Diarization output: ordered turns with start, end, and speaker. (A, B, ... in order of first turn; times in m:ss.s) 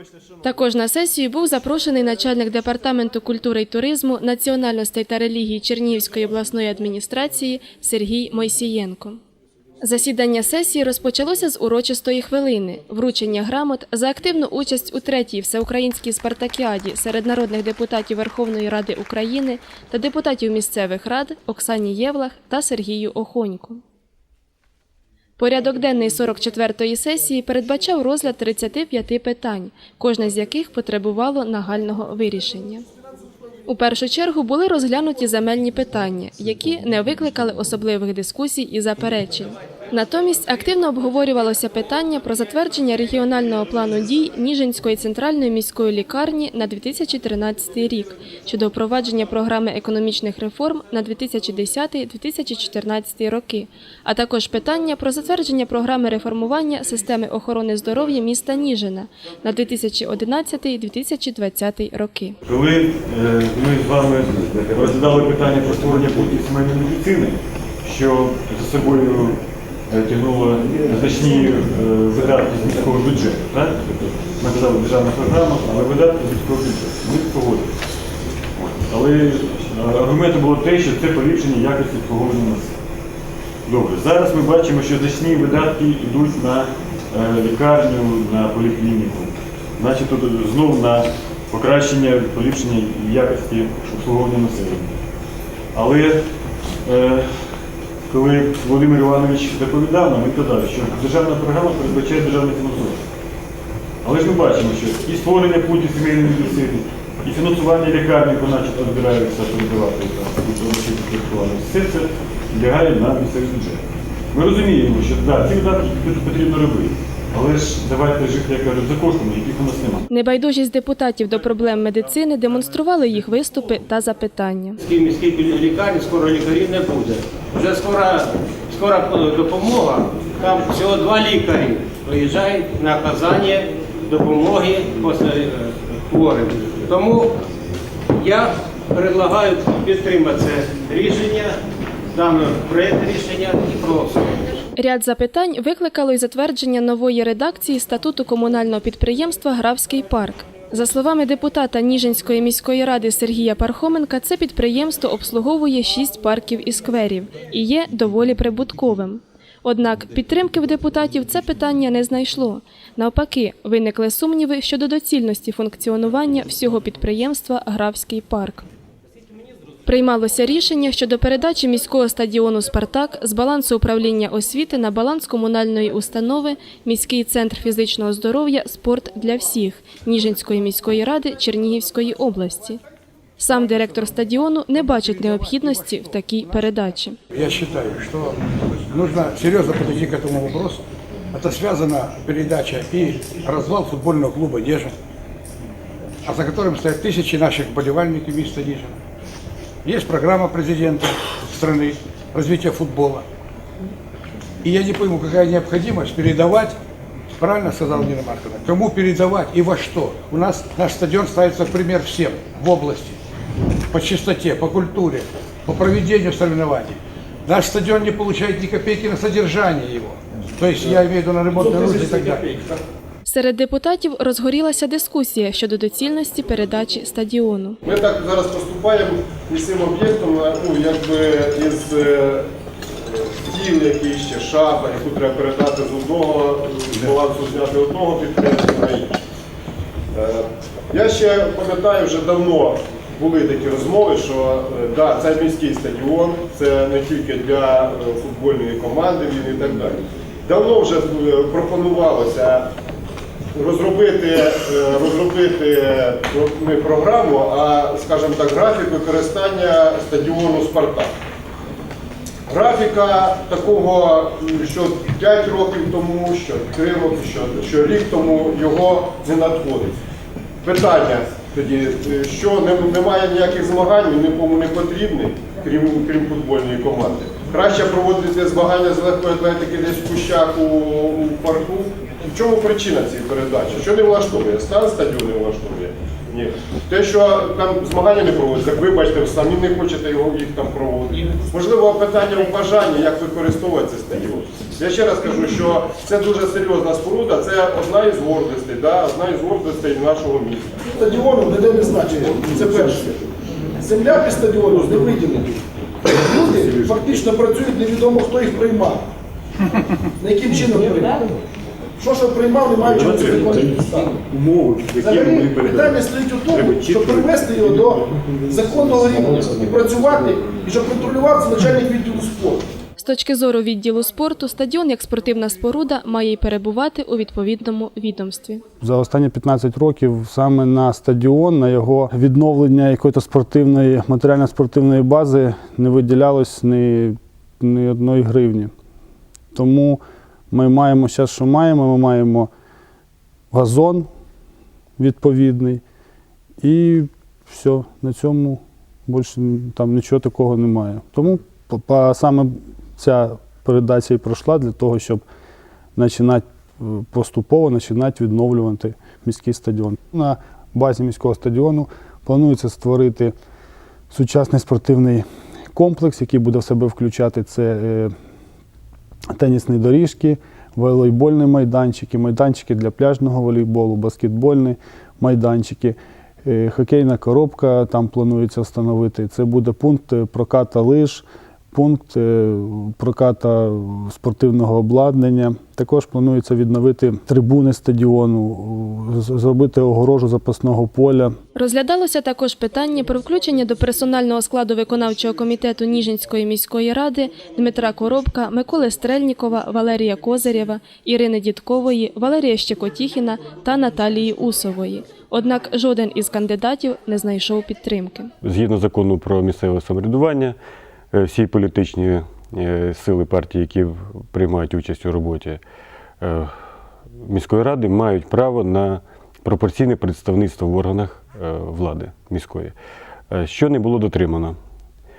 0:00.4-0:09.2 A
0:09.8-0:23.8 A
0:25.4-0:32.8 A
0:33.7-1:02.4 A
1:02.4-1:17.7 B
1:18.6-1:22.8 B
1:23.7-1:35.0 B
1:35.7-1:36.2 B
1:36.8-1:37.3 B
1:38.1-1:43.0 B
1:44.0-2:00.1 B
2:00.1-2:04.8 A
2:04.8-2:17.4 C
2:18.2-2:21.6 C
2:22.1-2:24.5 C
2:24.8-2:48.7 A
2:49.8-3:02.8 A
3:03.4-3:07.2 A
3:07.3-3:15.0 D
3:16.2-3:19.0 D
3:19.8-3:23.3 D
3:24.6-3:26.8 D
3:27.4-3:33.2 D
3:33.9-3:42.7 D
3:41.6-3:42.6 C
3:43.2-3:47.8 A
3:47.8-3:52.5 E
3:53.1-3:59.2 E
4:00.1-4:12.7 E
4:13.6-4:21.1 E
4:22.5-4:30.0 E
4:30.6-5:00.9 E
5:00.9-5:03.2 F
5:03.8-5:09.1 F
5:10.2-5:11.4 F
5:12.0-5:14.2 F
5:12.8-5:18.0 B
5:15.0-5:22.6 F
5:23.0-5:28.6 A
5:28.8-5:38.7 G
5:39.5-5:40.0 G
5:40.5-5:42.5 G
5:43.5-5:44.1 G
5:45.0-5:45.8 G
5:46.6-5:55.2 G
5:56.0-6:03.3 G
6:04.1-6:08.1 G
6:09.4-6:31.4 G
6:31.6-6:48.3 A
6:48.4-6:50.6 B
6:51.1-6:55.6 B
6:56.2-6:56.5 B
6:57.2-7:02.7 B
7:03.3-7:04.6 B